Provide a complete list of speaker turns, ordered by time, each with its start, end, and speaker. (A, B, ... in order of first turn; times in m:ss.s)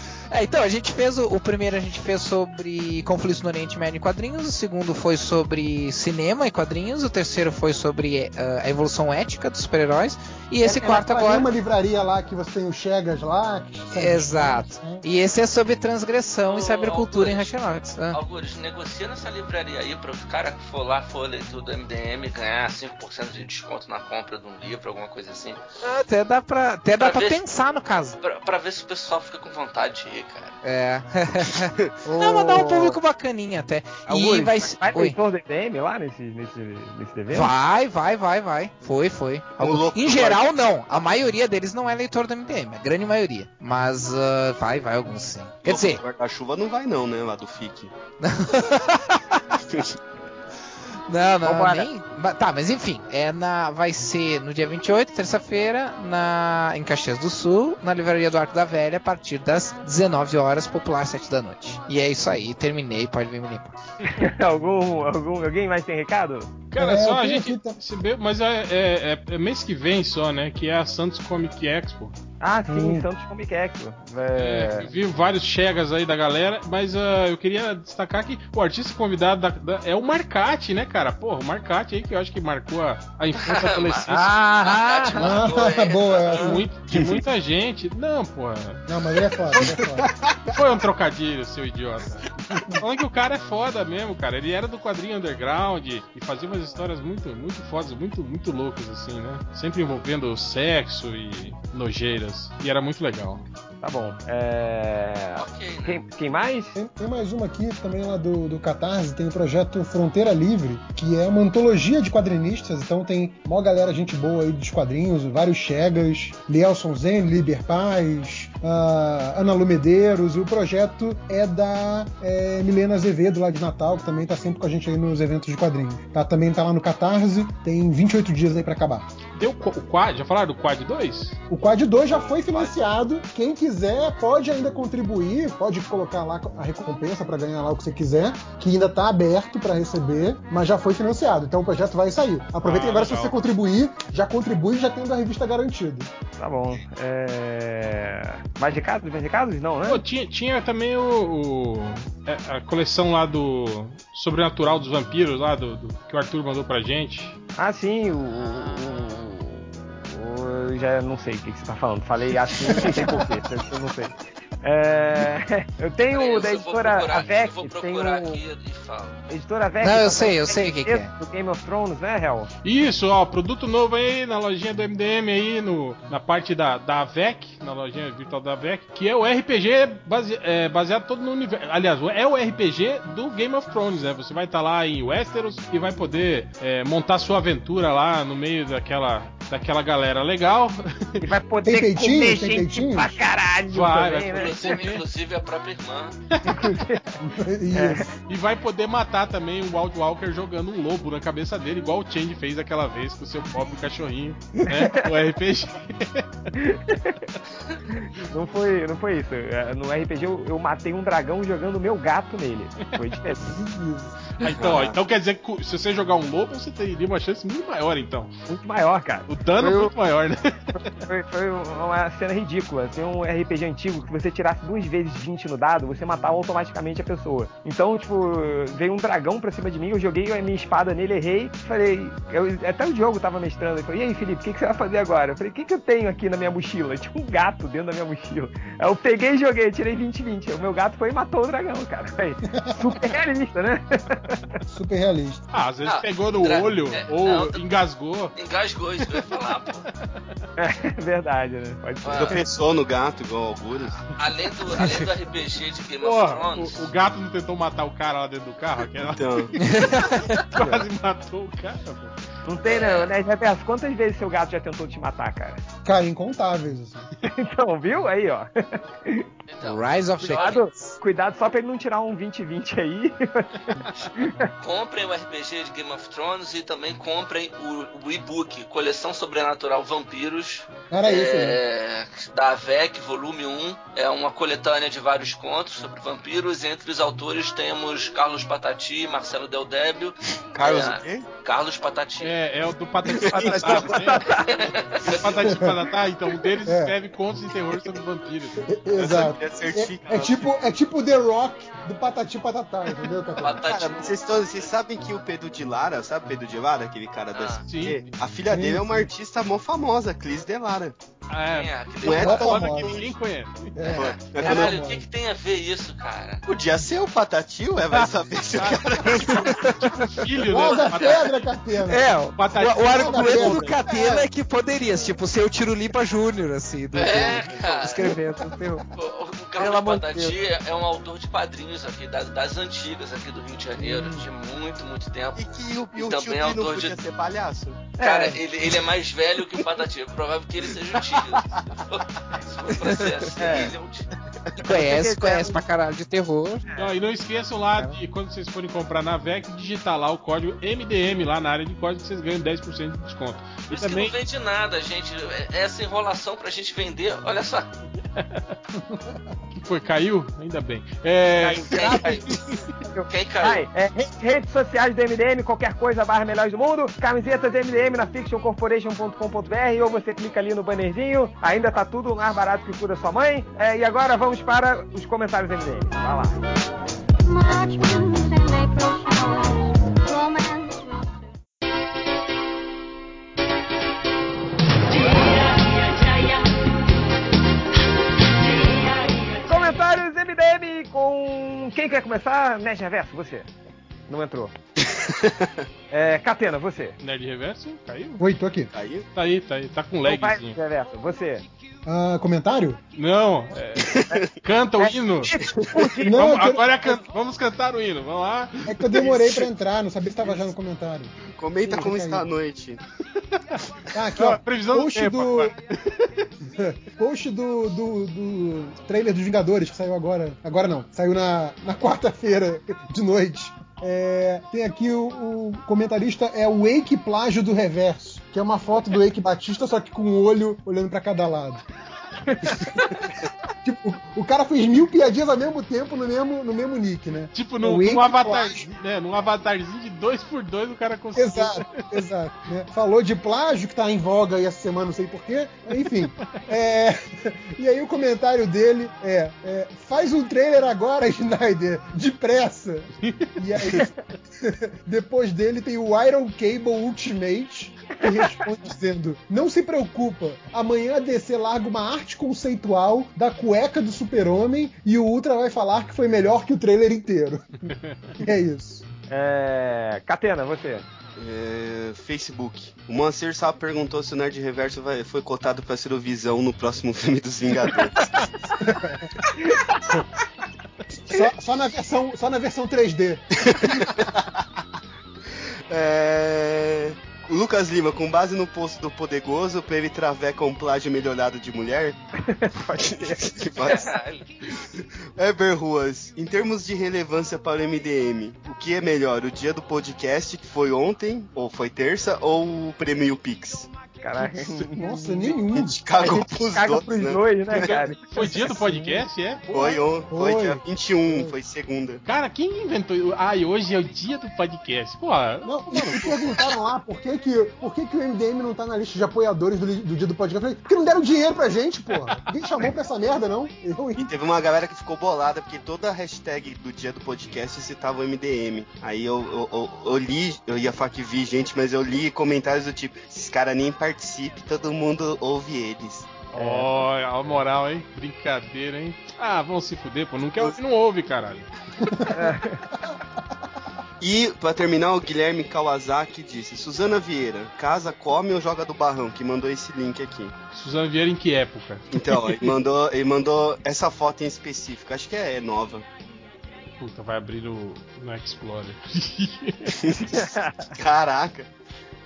0:00.3-0:11.5 A
0:10.6-0:15.0 B
0:13.9-0:18.2 A
0:16.4-0:17.5 C
0:18.1-0:25.6 C
0:25.8-0:28.2 A
0:26.9-0:27.4 C
0:28.2-0:30.6 C
0:30.6-0:35.2 A
0:32.1-0:33.0 D
0:32.2-0:32.8 B
0:34.1-0:37.5 D
0:37.3-0:46.0 A
0:39.6-0:40.4 E
0:45.6-0:47.9 E
0:48.2-0:49.4 A
0:51.1-1:03.7 A
0:51.4-0:51.9 D
1:04.0-1:06.5 D
1:06.7-1:12.2 F
1:06.8-1:07.8 B
1:12.4-1:14.9 D
1:12.7-1:13.1 B
1:14.4-1:24.3 F
1:23.4-1:26.6 C
1:24.1-1:25.3 D
1:25.2-1:26.7 B
1:26.3-1:28.8 F
1:26.9-1:27.2 E
1:28.9-1:30.1 B
1:29.5-1:30.7 E
1:30.5-1:43.4 F
1:43.8-1:46.8 D
1:45.4-1:46.0 C
1:46.8-2:09.1 B
2:09.4-2:11.4 F
2:11.5-2:26.1 B
2:12.2-2:12.6 C
2:22.6-2:23.4 F
2:26.4-2:30.0 D
2:29.8-2:37.4 F
2:37.6-2:48.4 D
2:38.5-2:38.9 C
2:42.7-2:43.1 B
2:46.1-2:49.2 C
2:49.3-2:52.5 D
2:49.8-2:51.1 A
2:52.6-3:11.3 F
3:11.2-3:14.8 D
3:11.6-3:13.2 B
3:13.7-3:15.0 F
3:14.3-3:16.2 C
3:16.3-3:16.7 F
3:16.5-3:17.1 D
3:16.5-3:18.1 B
3:17.7-3:18.0 D
3:18.3-3:26.5 F
3:26.6-3:27.3 D
3:27.9-3:33.6 D
3:33.4-3:34.2 B
3:34.4-3:38.3 F
3:34.5-3:35.0 E
3:38.5-3:39.3 D
3:39.3-3:41.0 F
3:39.6-3:39.9 B
3:41.1-4:04.6 D
4:04.7-4:05.4 B
4:05.5-4:08.3 F
4:05.8-4:07.6 C
4:08.3-4:09.8 C
4:10.6-4:12.4 D
4:12.0-4:12.4 C
4:12.1-4:14.1 E
4:14.0-4:16.8 C
4:16.0-4:22.1 F
4:19.1-4:19.6 E
4:19.6-4:20.4 A
4:22.4-4:25.6 D
4:22.6-4:23.1 C
4:25.8-4:27.0 B
4:27.2-4:29.3 D
4:29.5-4:30.6 C
4:29.6-4:30.6 A
4:30.2-4:33.5 D
4:34.2-4:34.5 D
4:34.6-4:52.3 C
4:40.9-4:41.6 B
4:50.5-4:51.3 E
4:52.2-4:54.3 F
4:53.0-4:54.0 E
4:53.8-4:54.5 D
4:54.4-4:55.6 C
4:54.7-4:55.2 E
4:55.0-4:58.7 F
4:55.5-4:55.8 B
4:56.6-4:56.9 B
4:58.6-5:03.6 B
4:58.9-5:00.5 E
5:03.4-5:04.7 C
5:03.6-5:10.9 E
5:07.3-5:07.7 C
5:07.6-5:08.0 F
5:07.8-5:09.1 B
5:11.3-5:13.9 F
5:11.5-5:12.7 C
5:12.0-5:13.0 B
5:12.0-5:13.1 E
5:13.7-5:15.0 B
5:13.9-5:14.9 E
5:14.0-5:16.4 C
5:16.4-5:19.7 E
5:17.9-5:21.4 F
5:20.3-5:24.0 B
5:20.6-5:21.3 C
5:21.9-5:28.6 A
5:22.4-5:23.8 F
5:23.8-5:24.3 E
5:26.9-5:28.1 C
5:27.0-5:27.3 B
5:27.9-5:28.8 D
5:28.9-5:37.0 C
5:29.6-5:30.3 D
5:35.4-5:37.9 E
5:38.0-5:38.4 D
5:38.0-5:44.1 C
5:40.9-5:41.6 E
5:42.7-5:43.2 A
5:43.4-5:43.7 E
5:43.4-5:43.7 D
5:44.5-5:44.8 E
5:44.6-5:46.6 A
5:44.7-5:45.6 D
5:46.7-5:46.9 D
5:46.8-5:54.2 F
5:53.7-5:57.7 C
5:58.2-5:58.5 F
5:59.6-6:02.6 F
6:01.4-6:02.3 D
6:01.6-6:02.3 C
6:02.8-6:16.4 D
6:03.1-6:03.6 C
6:29.4-6:33.5 D
6:34.1-6:34.5 D
6:34.9-6:35.5 E
6:35.9-6:37.0 D
6:37.0-6:38.2 F
6:38.2-6:38.7 B
6:38.7-6:39.1 E
6:39.1-6:40.6 F
6:40.0-6:41.4 D
6:41.8-6:42.8 B
6:43.0-6:45.4 F
6:43.8-6:44.3 E
6:44.8-6:46.2 D
6:46.0-6:47.0 B
6:46.0-6:49.5 F
6:48.6-6:51.1 B
6:51.4-6:52.8 E
6:51.6-6:52.3 B
6:53.9-6:55.5 B
6:54.2-6:56.3 F
6:56.4-7:11.6 B
7:12.2-7:13.0 D
7:13.6-7:18.7 B
7:17.3-7:22.0 F
7:21.2-7:48.8 B
7:25.8-7:26.4 F
7:33.0-7:33.8 F
7:47.7-7:48.2 F
7:49.1-7:50.8 D
7:51.2-7:58.2 E
7:58.6-7:59.0 B
7:59.4-7:59.6 D
8:01.1-8:03.2 B
8:03.4-8:04.2 E
8:05.7-8:12.0 E
8:12.2-8:13.9 D
8:12.8-8:13.9 E
8:13.6-8:14.3 C
8:14.7-8:23.7 E
8:24.0-8:25.4 D
8:24.8-8:25.8 B
8:25.5-8:27.8 E
8:26.0-8:28.0 D
8:27.5-8:29.9 F
8:28.2-8:29.0 B
8:29.5-8:32.0 E
8:30.1-8:31.3 B
8:32.0-8:35.5 F
8:35.4-8:44.1 B
8:35.7-8:36.4 E
8:44.0-8:56.1 E
8:56.3-9:01.9 F
8:56.3-8:56.8 D
9:01.8-9:02.2 B
9:02.1-9:02.6 D
9:04.0-9:10.3 E
9:10.5-9:12.4 F
9:11.9-9:15.8 E
9:16.8-9:19.8 F
9:19.8-9:21.5 E
9:20.1-9:20.7 D